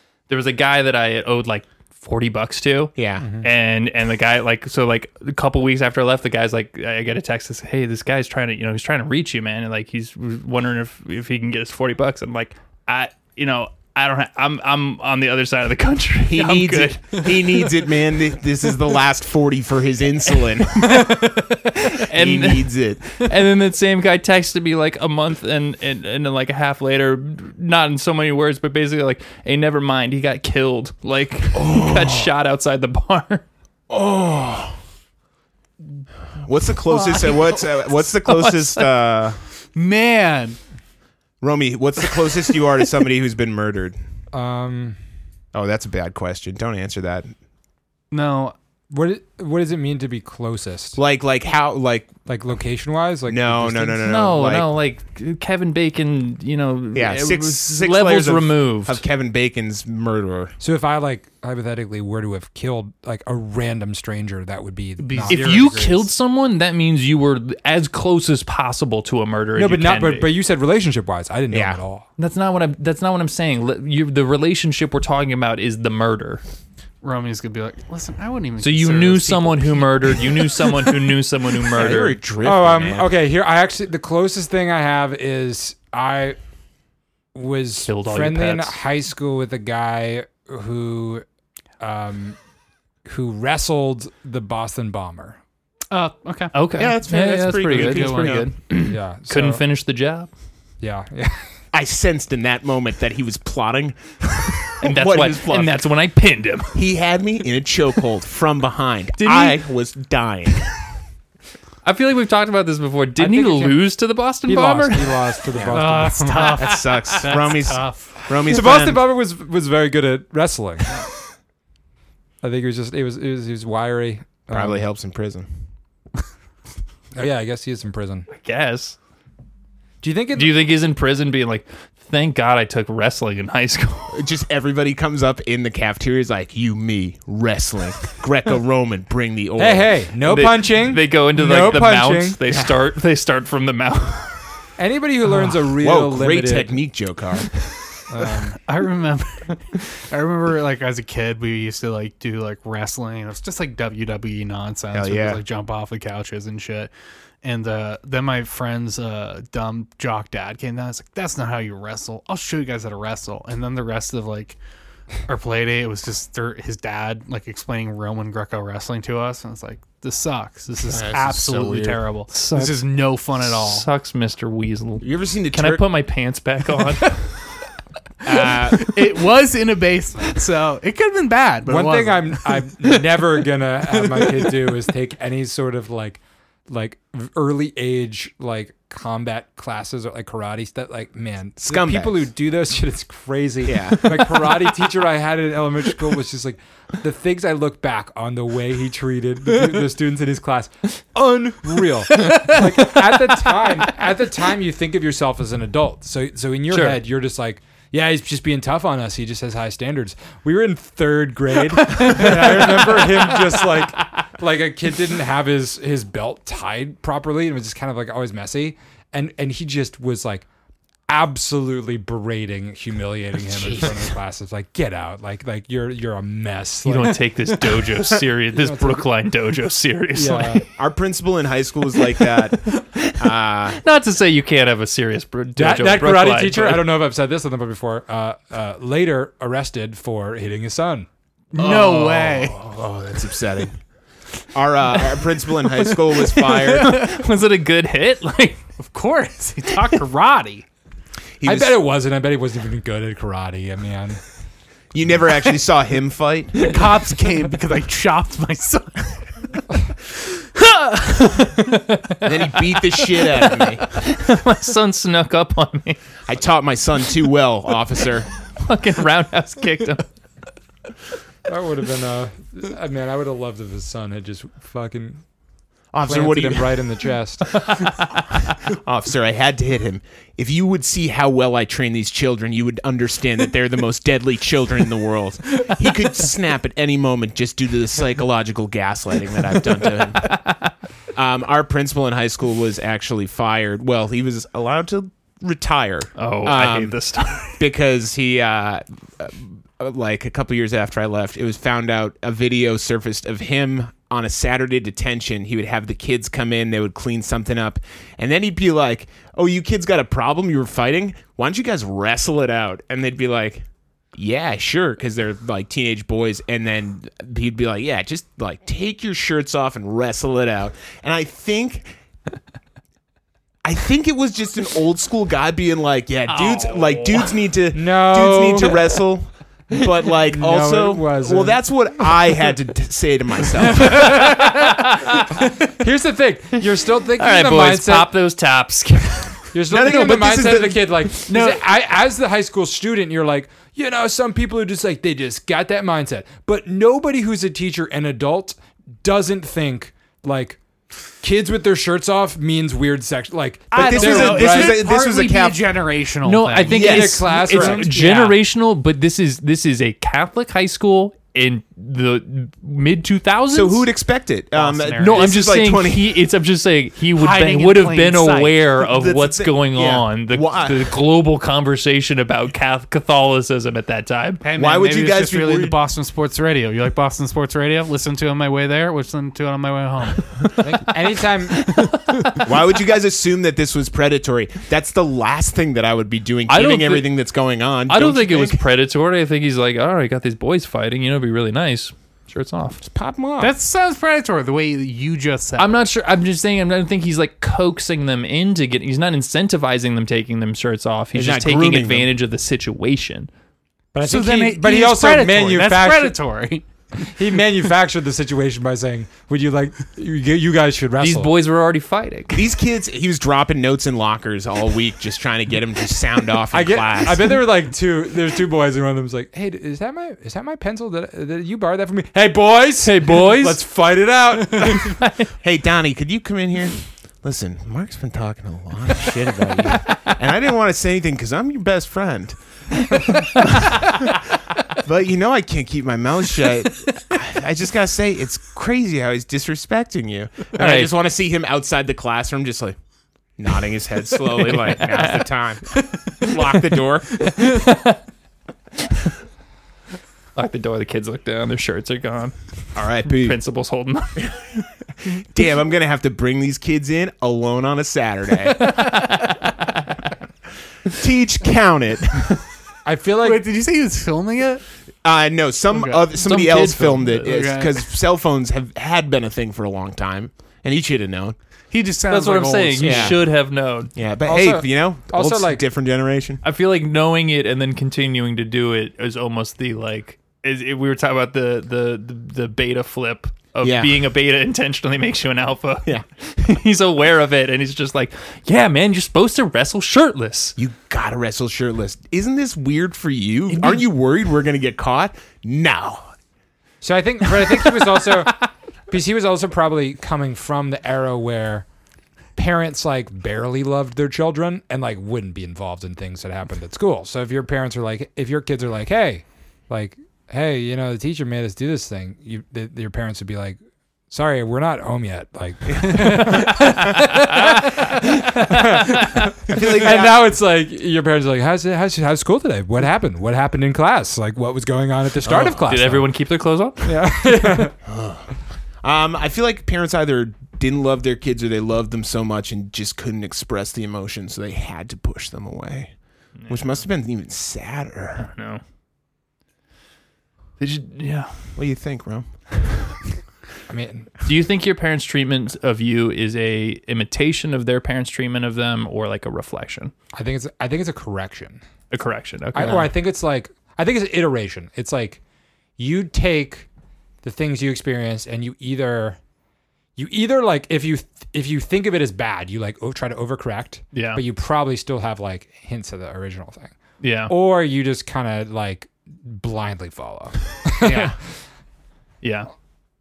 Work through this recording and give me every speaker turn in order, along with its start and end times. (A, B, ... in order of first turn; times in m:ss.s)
0:00.3-0:17.9 A
0:03.0-0:03.3 B
0:03.2-0:03.5 C
0:16.3-0:21.3 B
0:20.9-0:33.4 A
0:22.0-0:23.3 B
0:31.5-0:32.3 B
0:33.9-0:34.8 B
0:36.4-0:39.4 B
0:36.9-0:38.9 A
0:39.7-0:40.6 D
0:41.4-0:44.0 B
0:44.3-0:45.0 C
0:45.5-0:47.3 B
0:48.1-0:48.5 D
0:48.9-0:51.0 C
0:51.0-0:52.1 B
0:52.3-0:54.0 C
0:53.3-0:54.7 B
0:54.0-0:59.0 A
0:56.9-1:00.5 B
1:00.6-1:06.0 C
1:05.0-1:06.0 D
1:05.3-1:10.3 A
1:09.6-1:12.0 C
1:11.5-1:11.8 B
1:12.2-1:16.4 A
1:17.0-1:20.8 D
1:18.6-1:22.2 A
1:21.7-1:23.1 B
1:22.4-1:26.4 C
1:27.3-1:31.2 C
1:27.9-1:28.8 A
1:31.8-1:32.4 C
1:33.0-1:35.4 C
1:35.9-1:36.5 D
1:36.5-1:40.3 A
1:36.7-1:38.5 B
1:37.7-1:38.4 D
1:38.8-1:39.6 C
1:40.8-1:41.6 C
1:41.7-1:45.8 B
1:44.8-1:46.9 A
1:46.7-1:50.7 B
1:49.2-1:49.6 A
1:51.8-1:55.4 A
1:53.2-1:53.8 C
1:54.4-1:56.6 C
1:55.5-1:55.8 B
1:55.7-1:58.2 D
1:56.4-1:57.3 A
1:56.5-1:59.0 B
1:58.4-2:01.0 C
2:02.4-2:04.8 C
2:04.5-2:05.5 B
2:07.1-2:08.3 C
2:08.3-2:09.0 A
2:10.0-2:10.6 C
2:10.3-2:14.2 A
2:14.1-2:19.9 B
2:19.6-2:22.4 C
2:20.2-2:24.5 A
2:24.8-2:26.8 C
2:25.8-2:27.6 B
2:28.1-2:28.5 C
2:28.3-2:36.9 D
2:34.9-2:35.4 B
2:37.4-2:44.6 D
2:45.2-2:53.9 D
2:50.9-2:52.0 B
2:52.3-2:57.4 A
2:55.0-2:55.8 B
2:58.2-2:59.0 B
2:58.4-3:02.7 D
3:01.6-3:40.5 C
3:11.6-3:12.2 B
3:13.6-3:14.2 B
3:22.2-3:22.6 A
3:26.7-3:27.0 A
3:32.0-3:33.2 A
3:41.1-3:47.2 C
3:43.6-3:43.9 B
3:46.8-3:50.6 A
3:48.5-3:49.1 C
3:50.1-3:50.6 C
3:50.7-3:53.8 B
3:53.7-3:56.9 A
3:55.6-4:01.1 C
4:01.5-4:02.6 D
4:01.6-4:03.8 B
4:04.5-4:07.1 B
4:05.8-4:08.7 A
4:08.8-4:10.6 D
4:11.4-4:11.7 B
4:11.4-4:14.2 C
4:14.9-4:16.7 B
4:16.5-4:19.3 D
4:20.3-4:21.3 D
4:21.5-4:26.0 A
4:22.2-4:23.9 B
4:26.3-4:28.3 B
4:28.6-4:30.0 A
4:31.5-4:35.2 C
4:35.9-4:36.8 B
4:36.0-4:37.7 C
4:38.6-4:50.5 B
4:50.2-4:50.6 A
4:51.1-4:57.0 B
4:56.2-4:57.6 A
4:57.5-5:21.9 B
5:23.6-5:34.4 B
5:26.3-5:27.4 A
5:27.7-5:28.9 C
5:30.3-5:31.6 C
5:33.7-5:35.5 A
5:35.7-5:38.1 C
5:37.2-5:39.5 A
5:39.5-5:50.6 C
5:39.7-5:41.2 B
5:41.3-5:41.6 D
5:51.2-5:54.8 C
5:53.7-5:58.4 D
5:53.8-5:55.6 B
5:56.2-6:03.9 A
5:56.7-5:57.8 B
5:56.7-5:57.9 C
6:03.5-6:06.2 B
6:04.5-6:05.3 D
6:05.0-6:14.4 A
6:07.1-6:08.6 D
6:08.8-6:10.9 B
6:14.4-6:20.5 D
6:14.6-6:15.8 B
6:20.6-6:21.7 C
6:22.1-6:22.3 A
6:22.4-6:28.6 B
6:26.5-6:27.2 A
6:27.9-6:32.8 A
6:32.8-6:33.5 B
6:33.4-6:35.8 D
6:35.6-6:43.3 A
6:41.1-6:42.1 B
6:43.9-6:46.2 C
6:44.0-6:46.6 D
6:46.9-6:51.3 C
6:51.0-6:52.5 A
6:52.3-6:57.3 B
6:56.5-7:05.0 C
7:02.8-7:03.6 A
7:04.7-7:05.2 A
7:05.4-7:14.1 B
7:14.7-7:22.8 B
7:20.5-7:20.9 A
7:23.4-7:27.3 B
7:24.3-7:25.3 A
7:27.2-7:28.0 A
7:30.4-7:34.6 A
7:32.8-7:33.4 B
7:35.1-7:38.8 B
7:38.6-7:39.7 A
7:40.9-7:42.4 B
7:42.8-7:43.4 C
7:43.2-7:44.6 D
7:45.0-7:51.4 B
7:45.7-7:46.2 D
7:46.2-7:47.4 A
7:47.2-7:47.8 D
7:51.7-7:53.2 D
7:52.1-7:53.9 A
7:52.8-7:53.4 B
7:53.9-7:56.4 B
7:54.2-7:55.6 C
7:56.4-8:10.6 A
8:03.6-8:04.0 B
8:10.6-8:16.1 B
8:13.5-8:13.8 A
8:16.8-8:21.7 C
8:22.4-8:46.1 C
8:35.7-8:36.0 B
8:36.0-8:39.3 A
8:39.5-8:40.3 B
8:45.2-8:45.7 B
8:45.6-8:47.0 A
8:46.8-8:47.7 C
8:47.8-8:48.3 B
8:48.8-8:58.3 B
8:56.4-8:56.8 A
8:58.2-8:58.6 A
9:00.6-9:01.6 A
9:01.6-9:02.3 B
9:03.7-9:04.1 C
9:04.2-9:09.9 A
9:10.1-9:11.6 C
9:11.9-9:12.9 A
9:12.5-9:15.2 C
9:12.6-9:12.8 B
9:15.8-9:16.7 C
9:17.2-9:19.2 C
9:20.0-9:26.7 C
9:23.9-9:24.2 A
9:27.0-9:27.3 A
9:27.3-9:31.2 C
9:30.8-9:31.1 B
9:32.2-9:32.5 A